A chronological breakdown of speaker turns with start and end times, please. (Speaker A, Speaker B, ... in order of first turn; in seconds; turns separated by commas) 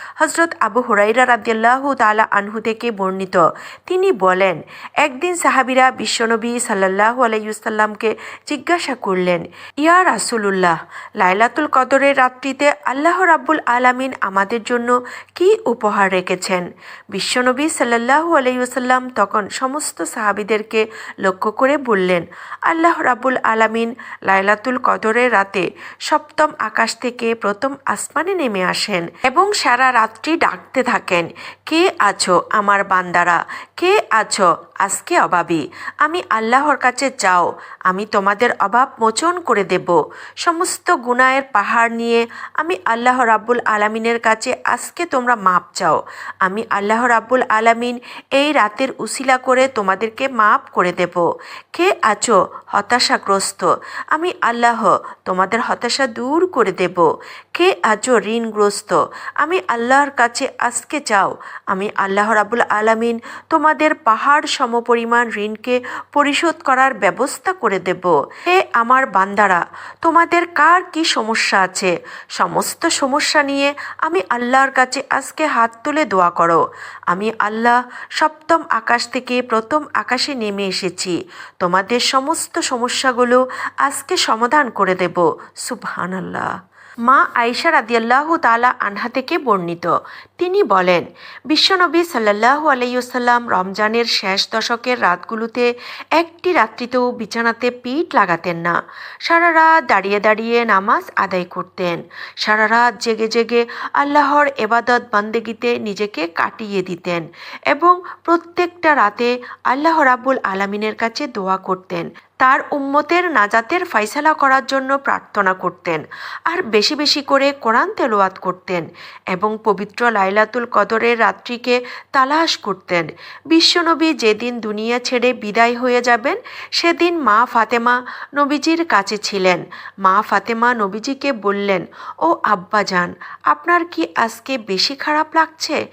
Speaker A: 0.2-86.5, Speaker A: 87.1-135.8